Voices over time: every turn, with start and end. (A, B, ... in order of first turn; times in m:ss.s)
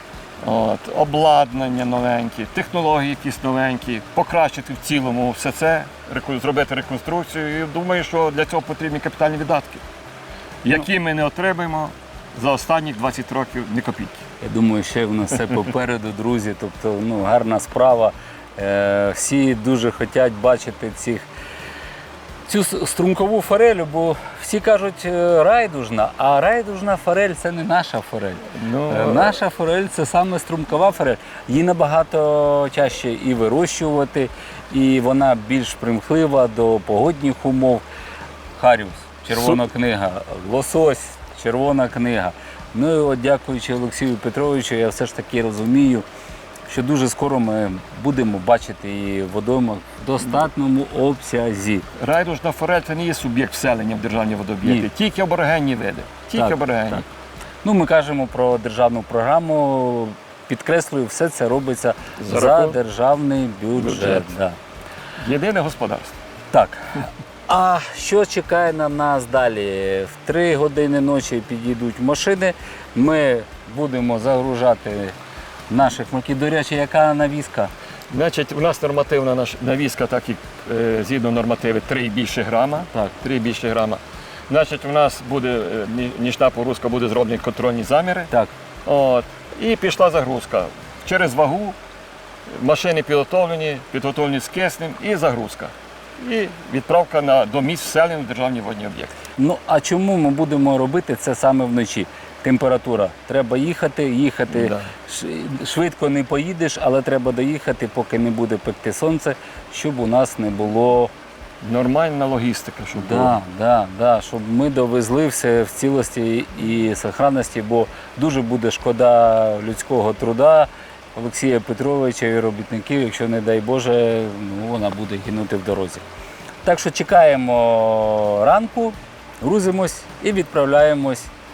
0:00.4-0:09.8 A
0:10.6-0:14.2 A
0:14.4-0:21.3 B
0:22.5-0:37.8 B
0:28.5-0:29.4 A
0:38.6-0:46.0 B
0:46.7-0:51.9 B
0:52.0-0:57.0 A
0:56.4-0:56.6 B
0:57.6-1:04.6 B
1:02.2-1:02.8 A
1:03.8-1:04.3 A
1:05.2-1:06.2 A
1:06.5-1:15.2 B
1:15.7-1:17.7 B
1:18.1-1:28.3 A
1:28.8-1:31.8 A
1:32.5-1:39.2 A
1:39.4-1:51.1 B
1:44.5-1:44.9 A
1:51.6-1:53.4 A
1:52.9-2:06.0 B
2:06.6-2:11.3 B